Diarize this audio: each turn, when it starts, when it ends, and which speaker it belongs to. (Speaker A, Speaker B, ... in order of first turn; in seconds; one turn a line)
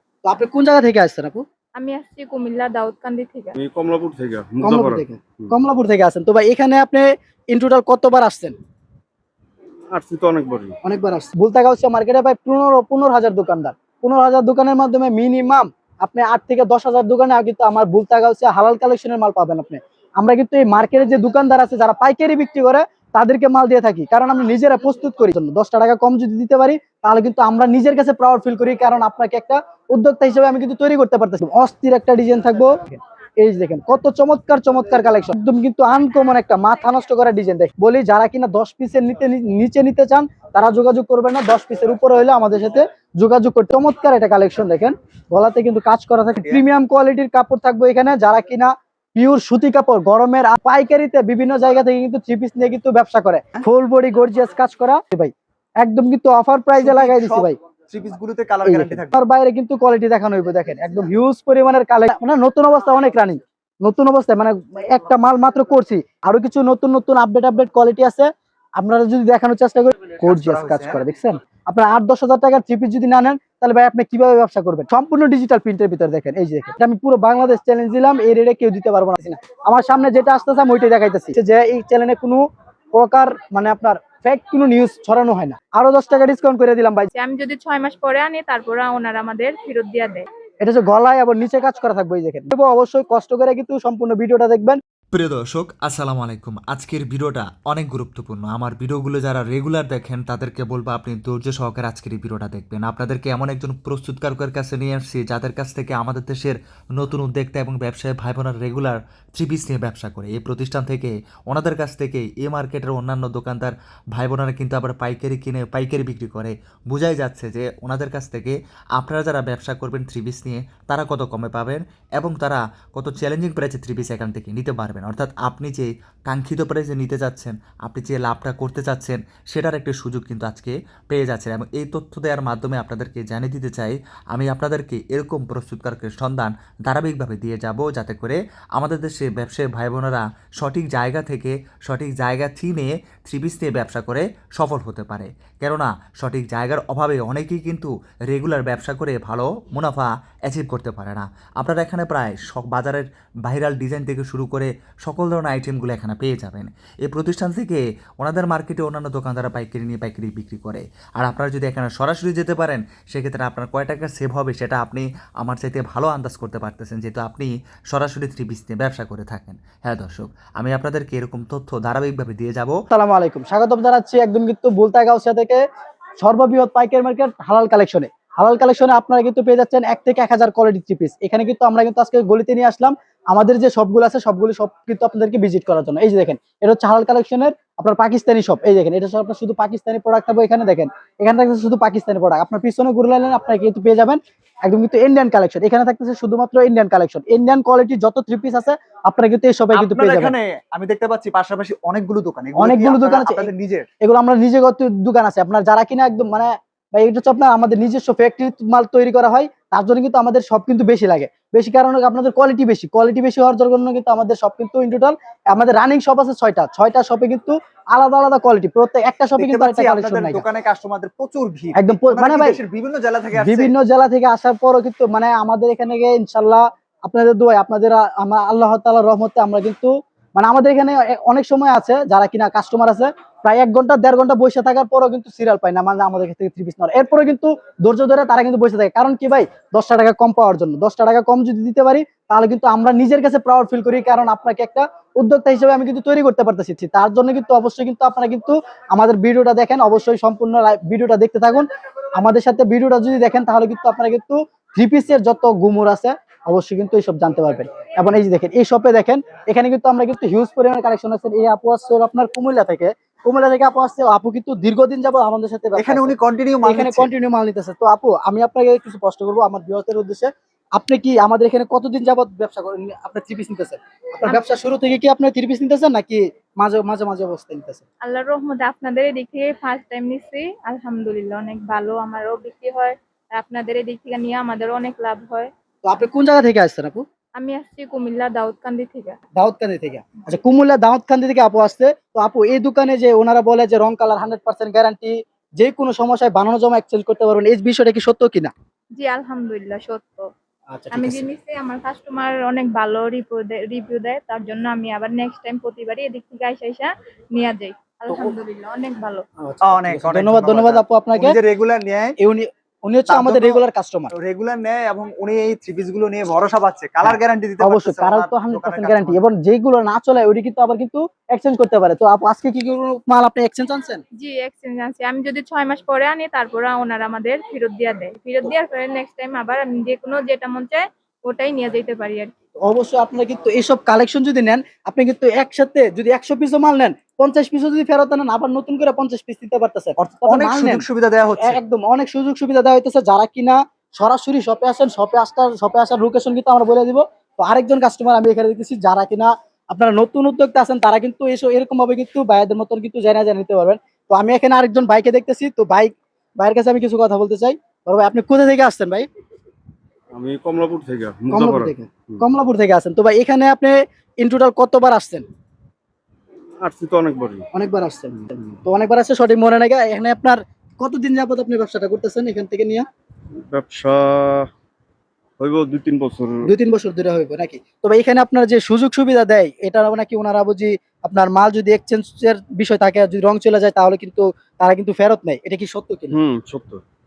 Speaker A: 0.2-1.4
Speaker B: 1.8-3.5
Speaker C: 3.5-5.5
Speaker A: 4.6-8.6
Speaker C: 9.9-10.8
Speaker A: 10.8-57.6
Speaker D: 56.8-59.1
Speaker A: 58.6-87.1
Speaker D: 70.2-71.0
Speaker B: 87.1-90.3
Speaker A: 90.6-94.8
Speaker E: 95.1-172.8
Speaker A: 172.9-175.6
Speaker A: 176.2-200.3
Speaker D: 199.7-203.9
Speaker A: 202.6-203.5
Speaker A: 204.0-220.4
Speaker D: 219.4-223.7
Speaker A: 221.7-222.6
Speaker A: 223.3-277.8
Speaker D: 265.8-267.1
Speaker B: 278.0-285.5
Speaker A: 285.8-287.0
Speaker B: 287.4-289.2
Speaker A: 289.3-298.5
Speaker B: 298.9-300.3
Speaker A: 300.7-301.3
Speaker B: 300.9-309.2
Speaker A: 309.4-311.4
Speaker D: 309.6-312.1
Speaker A: 312.2-314.1
Speaker D: 313.1-319.2
Speaker A: 317.0-324.0
Speaker B: 324.2-332.3
Speaker A: 332.6-340.9
Speaker D: 340.0-341.6
Speaker A: 341.4-359.1
Speaker C: 360.1-362.2
Speaker A: 361.3-365.2
Speaker C: 366.6-367.5
Speaker A: 367.5-372.9
Speaker C: 373.5-374.5
Speaker C: 375.4-376.5
Speaker A: 376.4-386.2
Speaker C: 386.1-386.8